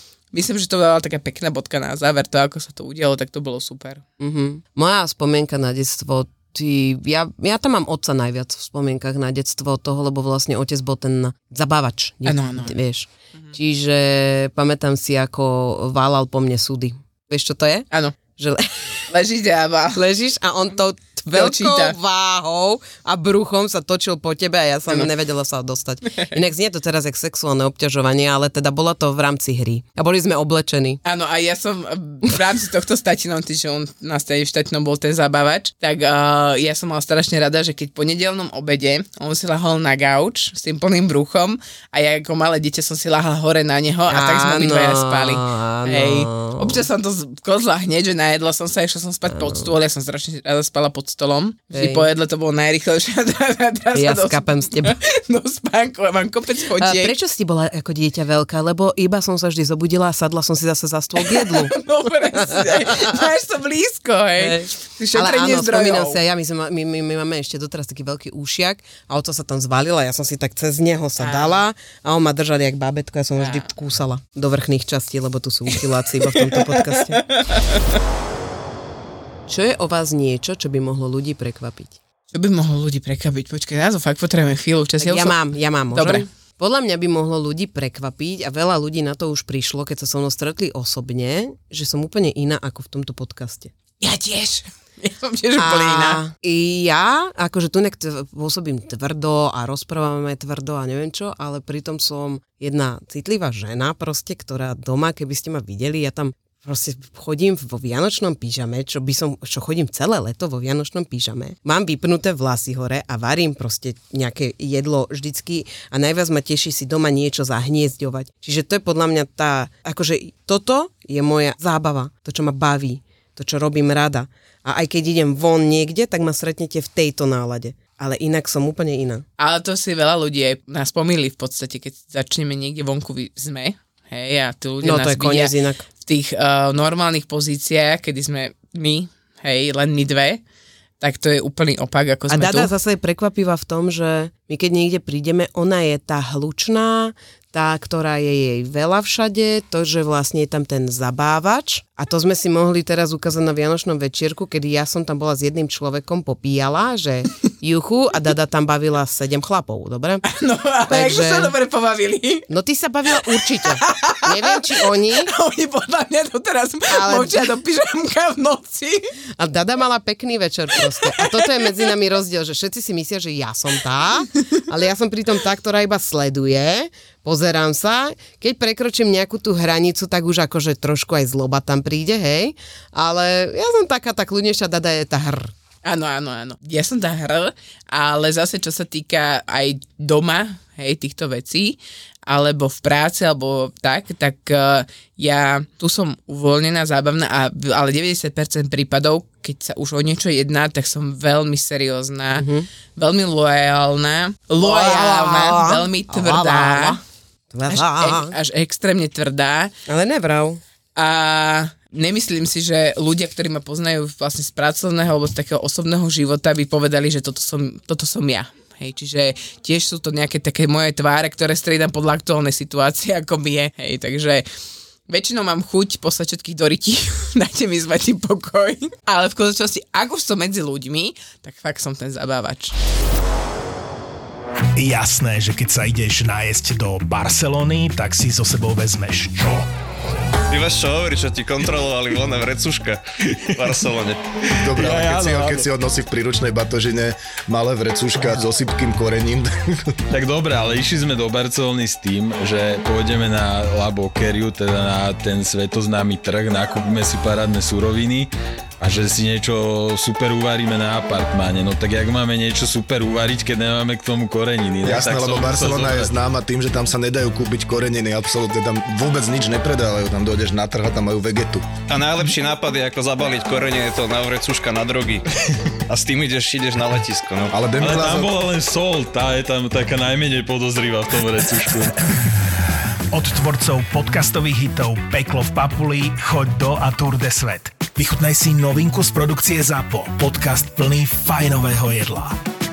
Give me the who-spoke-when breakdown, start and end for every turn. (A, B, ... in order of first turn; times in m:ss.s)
0:00.3-0:04.0 A
0:04.2-0:19.0 B
0:12.2-0:12.8 A
0:17.9-0:18.2 A
0:19.1-0:20.0 A
0:20.0-0:31.0 B
0:21.3-0:22.0 A
0:31.0-0:57.2 A
0:44.1-0:46.8 B
0:49.3-0:49.7 B
0:51.7-0:52.1 B
0:53.9-0:55.0 B
0:56.8-1:01.7 B
1:01.2-1:06.2 A
1:02.3-1:03.3 B
1:04.4-1:17.2 B
1:11.2-1:11.6 A
1:13.4-1:13.7 A
1:16.2-1:17.8 A
1:19.5-1:22.0 B
1:22.3-1:25.4 A
1:25.0-1:33.7 B
1:25.9-1:26.2 A
1:34.0-1:36.2 A
1:35.6-2:09.2 B
2:09.4-2:20.4 A
2:14.8-2:15.8 B
2:21.0-2:22.7 A
2:22.3-2:40.2 B
2:40.2-2:42.4 A
2:40.9-2:41.5 B
2:42.5-2:45.3 B
2:43.6-2:49.1 A
2:46.9-2:47.5 B
2:49.4-3:05.5 B
2:51.0-2:51.6 A
3:05.8-3:27.0 A
3:22.4-3:22.7 B
3:24.6-3:28.3 B
3:27.7-3:29.7 A
3:29.9-3:30.6 B
3:31.0-3:44.4 A
3:45.1-3:52.7 A
3:54.8-3:59.7 C
4:00.5-4:03.0 D
4:03.5-4:04.2 D
4:04.6-4:09.5 E
4:04.8-4:05.6 F
4:05.0-4:05.3 D
4:10.1-4:26.2 F
4:24.8-4:31.8 E
4:31.9-4:35.2 D
4:35.9-4:37.6 D
4:37.5-4:38.4 E
4:37.8-4:42.0 F
4:43.1-4:52.4 C